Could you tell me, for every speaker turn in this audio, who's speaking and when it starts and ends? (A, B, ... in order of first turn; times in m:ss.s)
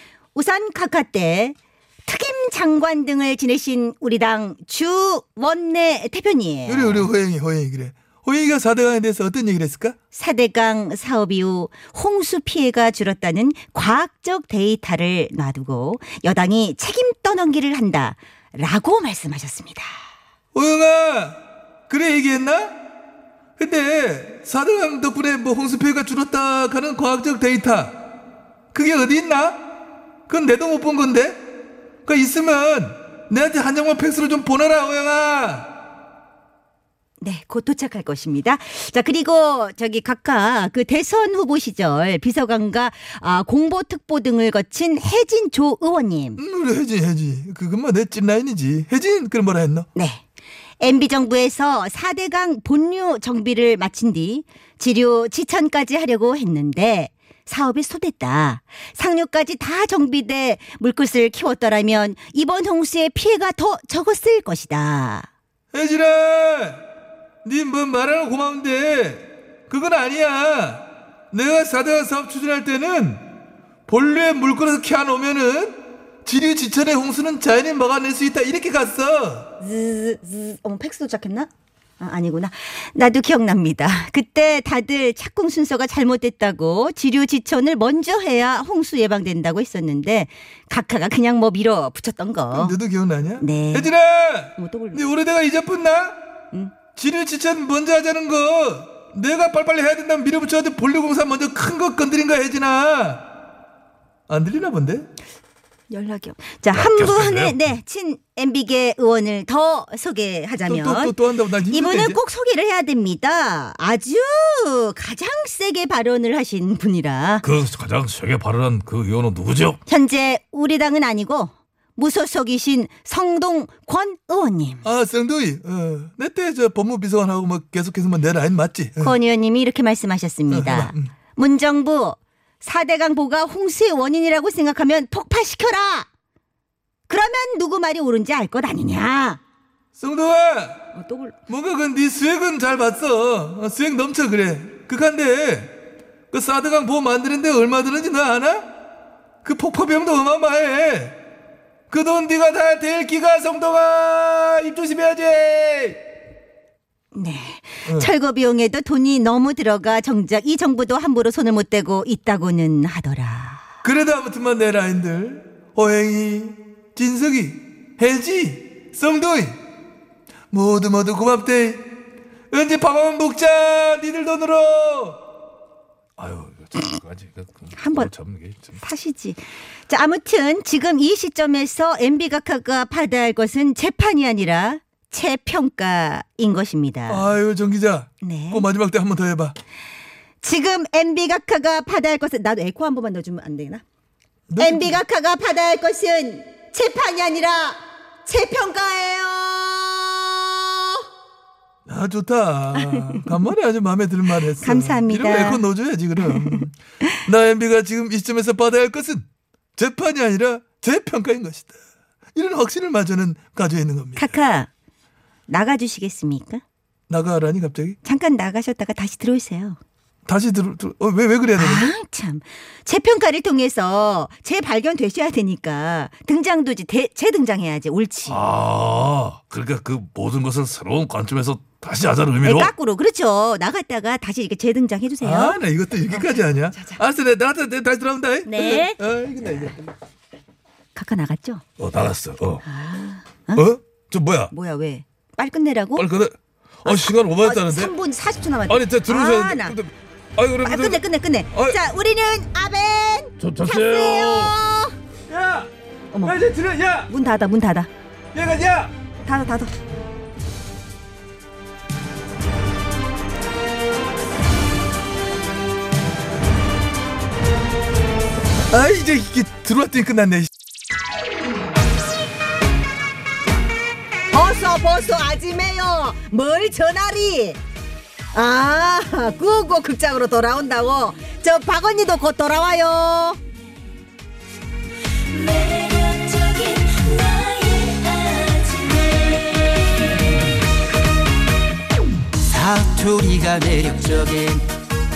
0:00.4-0:07.1 A
0:06.7-0:10.0 B
0:10.1-0:19.9 A
0:20.5-0:22.8 B
0:23.6-0:28.0 B
0:28.7-0:29.6 B
0:30.3-0:31.4 B
0:32.0-0:35.7 B
0:37.2-0:46.4 A
0:46.4-0:49.9 B
0:50.0-0:50.2 A
0:50.8-1:05.3 A
1:05.7-1:06.8 B
1:07.4-1:13.2 B
1:13.9-1:19.5 B
1:19.6-1:21.5 A
1:22.0-1:32.8 A
1:32.5-1:36.2 B
1:33.4-1:33.9 A
1:34.6-1:35.0 A
1:37.0-1:43.2 B
1:44.3-1:45.1 B
1:45.9-1:57.4 A
1:46.7-1:47.6 C
1:50.7-1:52.2 B
1:57.4-1:59.8 C
1:59.9-2:04.9 A
2:04.8-2:09.2 B
2:09.0-2:16.1 A
2:10.5-2:11.1 B
2:17.1-2:19.4 A
2:20.0-2:20.8 B
2:20.9-2:21.4 A
2:21.5-2:25.7 B
2:26.3-2:28.7 B
2:29.4-2:31.2 B
2:31.9-2:36.0 B
2:37.1-2:43.6 A
2:37.8-2:38.1 B
2:43.8-2:49.6 B
2:50.5-2:51.8 B
2:52.5-2:55.2 B
2:56.2-2:58.8 C
2:57.8-2:58.1 A
2:58.8-3:07.3 A
3:07.1-3:09.6 B
3:08.2-3:08.7 A
3:10.4-3:13.8 A
3:14.5-3:15.0 B
3:14.6-3:21.0 A
3:21.9-3:29.2 B
3:22.8-3:23.3 A
3:24.6-3:25.6 A
3:26.2-3:26.6 A
3:29.8-3:31.8 B
3:32.4-3:34.3 B
3:34.2-3:34.7 A
3:35.5-3:36.6 A
3:37.1-3:38.0 B
3:38.0-3:39.8 A
3:40.3-3:41.9 B
3:41.6-3:48.4 A
3:48.3-3:52.7 C
3:52.4-3:57.0 A
3:55.2-3:59.8 B
3:58.4-3:59.0 A
4:01.0-4:01.6 A
4:01.8-4:02.6 C
4:02.6-4:03.7 A
4:03.6-4:03.8 B
4:04.1-4:04.5 C
4:04.5-4:06.1 A
4:06.0-4:06.3 C
4:06.8-4:09.8 A
4:06.9-4:07.9 B
4:06.9-4:07.4 C
4:08.7-4:11.8 B
4:10.6-4:15.0 A
4:13.4-4:14.6 C
4:15.3-4:15.7 B
4:16.1-4:16.4 A
4:16.2-4:17.1 B
4:17.1-4:17.9 A
4:18.3-4:18.9 B
4:19.2-4:19.7 A
4:28.7-4:30.5 B
4:34.3-4:37.6 A
4:38.3-4:43.4 A
4:45.5-4:49.0 A
4:52.5-4:54.6 D